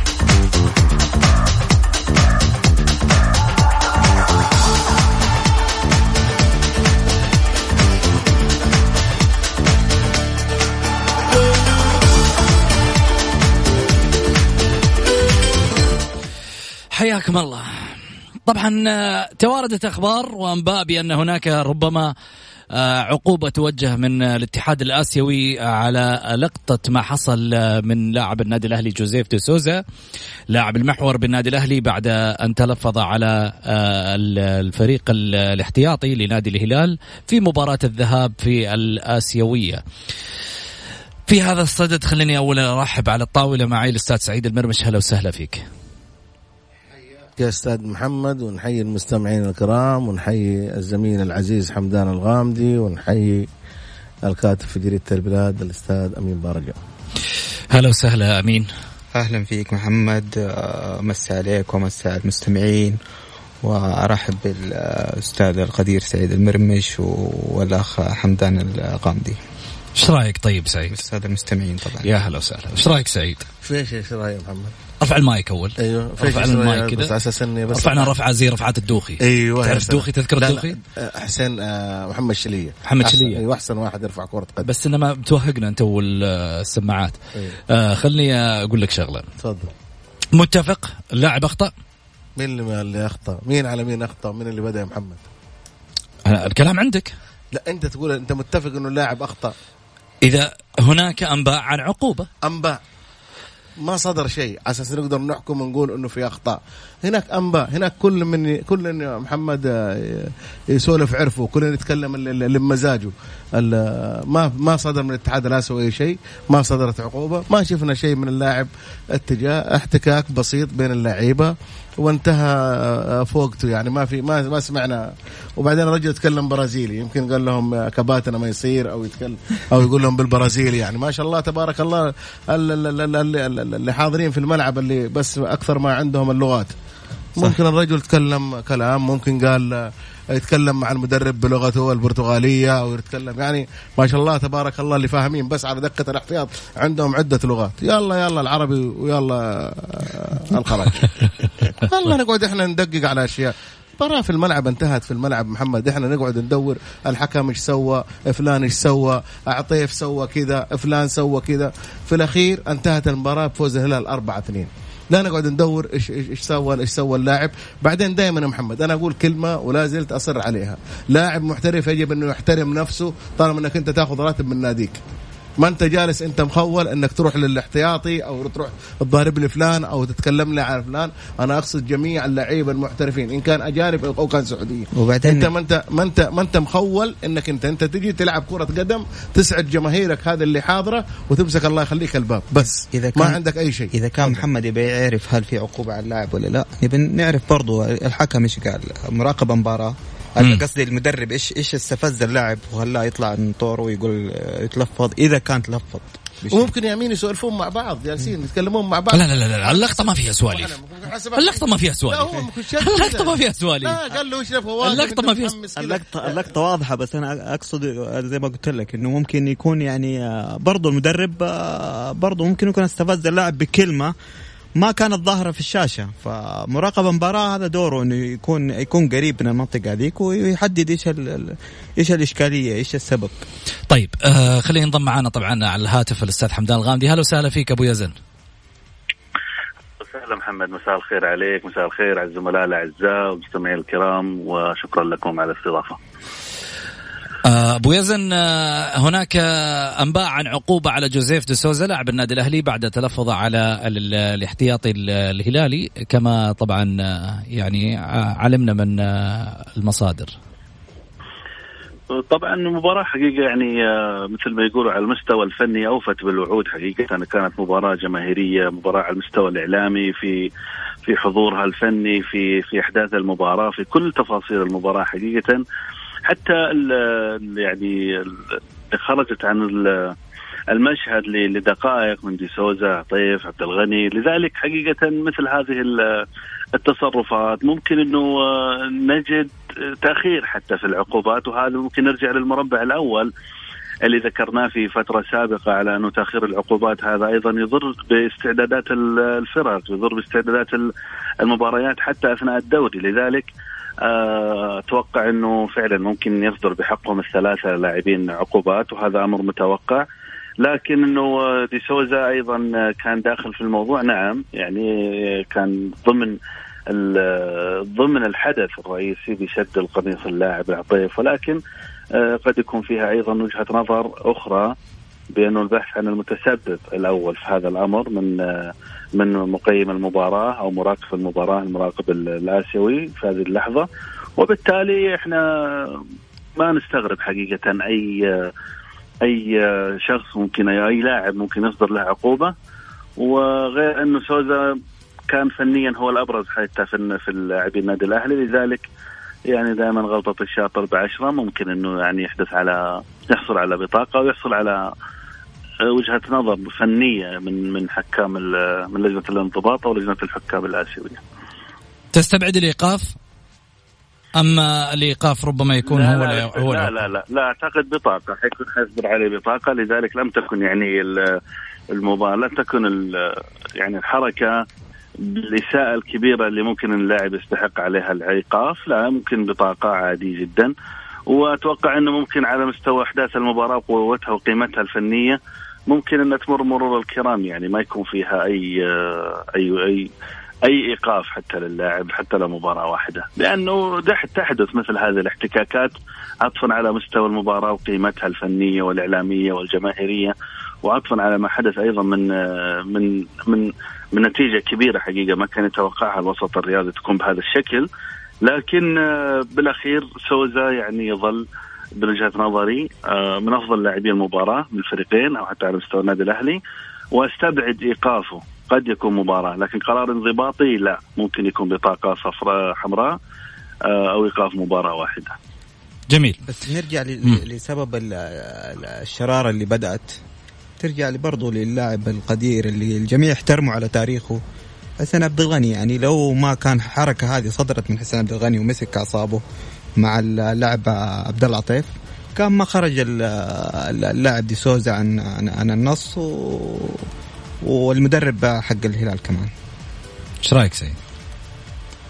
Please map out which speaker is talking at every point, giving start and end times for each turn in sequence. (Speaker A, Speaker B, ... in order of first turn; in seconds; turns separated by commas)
Speaker A: 16.9-22.1, Speaker A: 22.7-29.8, Speaker A: 30.5-39.8, Speaker A: 41.3-45.7, Speaker B: 47.4-53.5, Speaker B: 54.3-56.8, Speaker A: 57.7-58.7, Speaker C: 59.1-63.0, Speaker C: 63.6-69.4, Speaker A: 70.0-71.0, Speaker C: 70.9-72.1, Speaker A: 72.0-73.5, Speaker B: 73.6-74.8, Speaker A: 75.0-77.1, Speaker B: 75.8-78.1, Speaker A: 77.7-80.8, Speaker B: 79.2-84.7, Speaker A: 82.8-83.4, Speaker A: 84.7-87.2, Speaker A: 87.7-89.3, Speaker B: 89.4-89.7, Speaker A: 90.3-91.7, Speaker B: 92.4-95.2, Speaker A: 96.2-97.2, Speaker B: 97.5-99.5, Speaker A: 100.2-102.3, Speaker B: 102.4-102.8, Speaker B: 103.8-125.0, Speaker B: 125.6-136.8, Speaker B: 137.4-175.0, Speaker B: 175.6-194.4, Speaker C: 184.9-185.5, Speaker C: 192.9-193.4, Speaker C: 193.9-206.7, Speaker B: 206.5-216.4, Speaker A: 209.1-210.8, Speaker A: 211.4-214.0, Speaker A: 214.8-215.6, Speaker C: 215.8-224.1, Speaker C: 224.8-233.4, Speaker A: 233.9-238.2, Speaker D: 240.0-246.0, Speaker A: 247.4-260.3, Speaker D: 262.1-270.5, Speaker D: 271.1-275.6, Speaker D: 276.3-280.1, Speaker D: 280.7-293.3, Speaker D: 294.1-300.9, Speaker D: 301.4-303.5, Speaker D: 304.0-310.0, Speaker D: 310.6-316.4, Speaker D: 316.9-321.6, Speaker D: 322.1-324.7, Speaker D: 325.3-336.0, Speaker D: 336.6-338.5, Speaker D: 339.2-342.5, Speaker D: 343.2-344.8, Speaker D: 345.3-348.8, Speaker D: 349.5-354.9, Speaker D: 355.9-361.2, Speaker A: 362.1-363.2, Speaker A: 364.4-367.1, Speaker D: 365.9-371.4, Speaker D: 371.9-374.6, Speaker D: 375.2-380.7, Speaker D: 381.3-390.1, Speaker D: 390.6-407.9, Speaker D: 408.4-411.4, Speaker D: 412.0-416.6, Speaker D: 417.1-423.2, Speaker D: 423.9-425.4, Speaker A: 426.1-426.4, Speaker C: 426.5-430.2, Speaker C: 430.8-434.4, Speaker C: 435.0-439.4, Speaker C: 440.0-447.1, Speaker C: 447.6-449.5, Speaker A: 450.4-451.0